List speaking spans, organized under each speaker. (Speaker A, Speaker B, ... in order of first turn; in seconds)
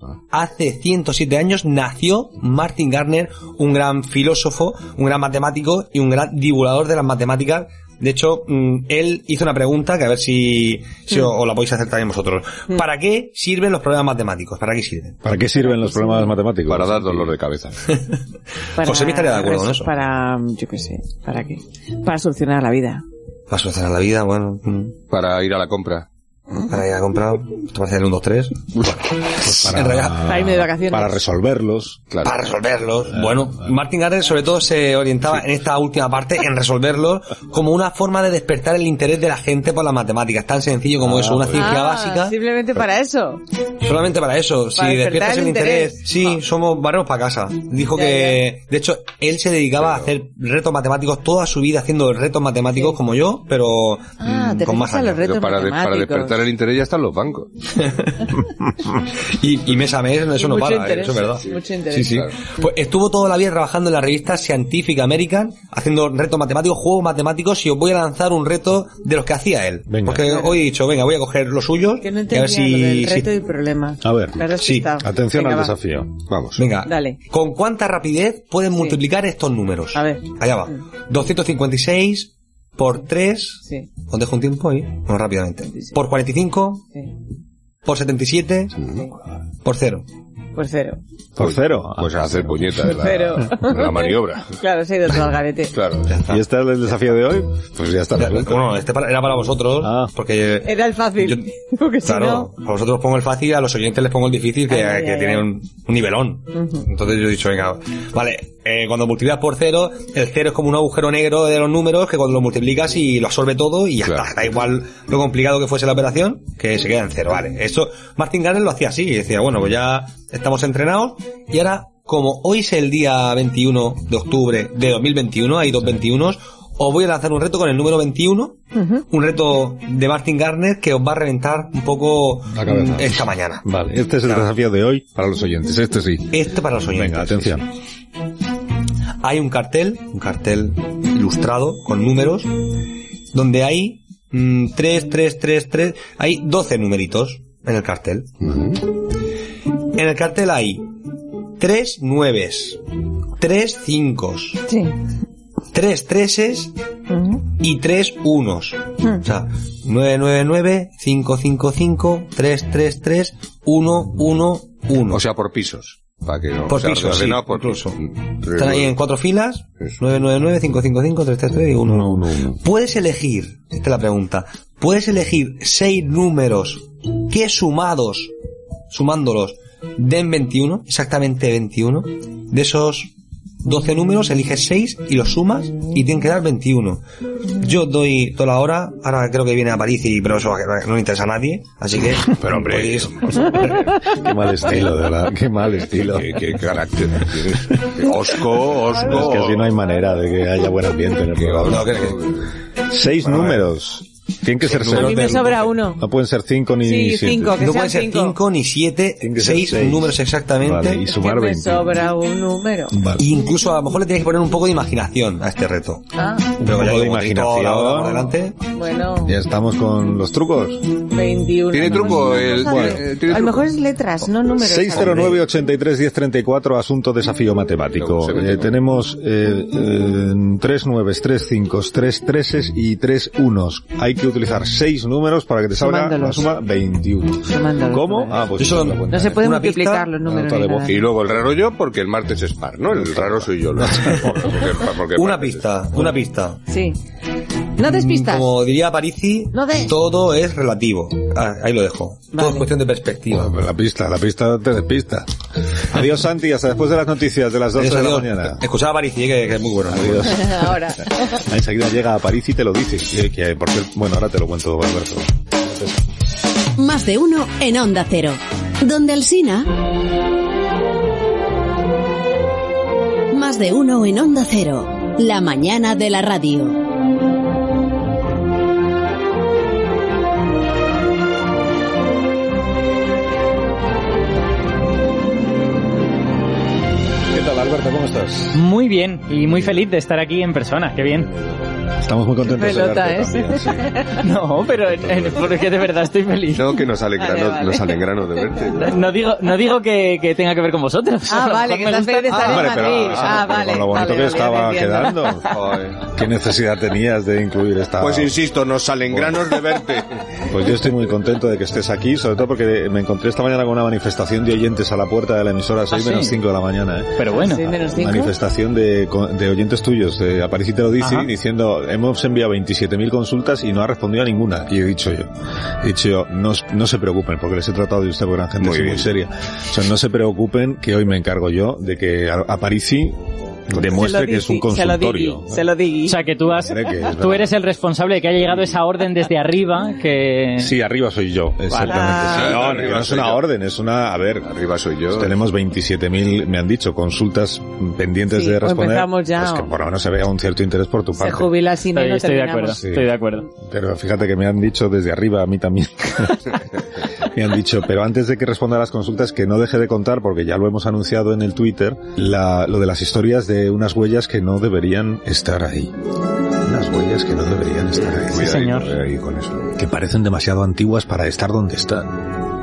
Speaker A: 0.3-15.2, 18.8-19.9, 23.5-25.0, 26.6-30.3, 32.2-42.4, 43.8-55.2, 57.8-58.2, 59.0-73.3, 74.5-74.9, 76.5-86.9, 87.8-89.0, 89.6-90.0, 96.0-96.4, 98.2-101.4, 102.0-133.7, 136.3-137.6, 139.2-142.8, 143.3-148.8, 149.9-150.9, 151.6-152.8, 153.4-154.6, 155.7-156.7, 157.5-165.2, 166.7-178.3, 178.9-183.1, 183.6-187.0, 187.5-194.0, 201.6-202.2, 203.2-203.5, 204.7-205.6, 207.6-211.0, 213.2-218.6, 225.0-225.3, 238.6-240.1, 245.1-246.7, 247.8-253.6, 257.7-260.6
Speaker B: 15.2-17.3, 29.4-32.1, 33.1-33.5, 41.0-41.7, 69.9-70.2, 74.0-76.2, 91.4-92.9, 96.2-98.7, 99.8-100.1, 132.5-137.7, 171.8-172.6, 193.9-196.5, 197.7-198.1, 199.0-202.1, 202.8-207.6, 209.2-211.9, 212.9-213.2, 216.6-218.3, 219.2-221.0, 222.5-223.0, 224.6-239.5, 240.2-241.0, 242.9-244.6, 253.3-255.3, 255.9-258.6, 259.9-266.0, 287.3-288.6, 292.0-293.9, 294.9-295.4, 302.4-305.5, 306.0-308.4, 309.1-309.5, 310.4-333.2, 333.7-335.6, 336.6-337.5, 340.6-344.5, 345.1-351.5, 352.8-356.6, 357.2-365.9, 366.6-368.6, 369.8-372.2
Speaker C: 15.6-16.3, 18.8-23.0, 30.2-31.2, 41.5-43.4, 44.8-46.0, 47.9-48.5, 54.2-56.4, 60.4-62.1, 70.2-70.6, 72.0-75.7, 76.8-77.2, 78.7-79.0, 79.9-80.8, 90.5-91.0, 92.8-95.7, 100.6-102.5, 104.7-105.5, 106.5-106.8, 128.7-129.0, 154.7-154.9, 157.1-157.4, 204.9-206.0, 206.8-208.4, 211.0-213.0, 216.2-216.5, 218.7-219.4, 221.0-225.4, 235.8-236.5, 237.4-238.5, 239.1-241.0, 246.7-247.0, 247.8-248.5, 249.5-249.9, 252.3-252.7, 260.5-261.4, 292.5-294.2, 297.2-297.9, 301.3-305.5, 317.4-318.3, 333.8-336.2, 341.7-342.6, 348.3-349.7, 351.2-352.8
Speaker D: 16.6-17.9, 25.1-26.1, 32.1-32.5, 55.2-57.5, 76.3-76.6, 91.4-94.6, 95.7-96.1, 114.0-114.5, 165.1-168.9, 192.2-193.7, 195.8-199.7, 201.3-202.5, 204.7-205.3, 221.7-223.7, 227.9-228.7, 240.9-245.8, 296.5-298.9, 305.5-306.0, 308.0-310.2, 328.6-329.1, 342.2-343.4, 344.4-345.4, 368.0-369.8
Speaker E: 266.8-269.8, 273.3-276.8
Speaker F: 288.5-291.3, 294.2-296.6, 298.8-302.8, 315.9-316.3, 317.2-317.7, 321.0-321.3, 336.1-340.7, 351.9-353.4, 368.3-368.9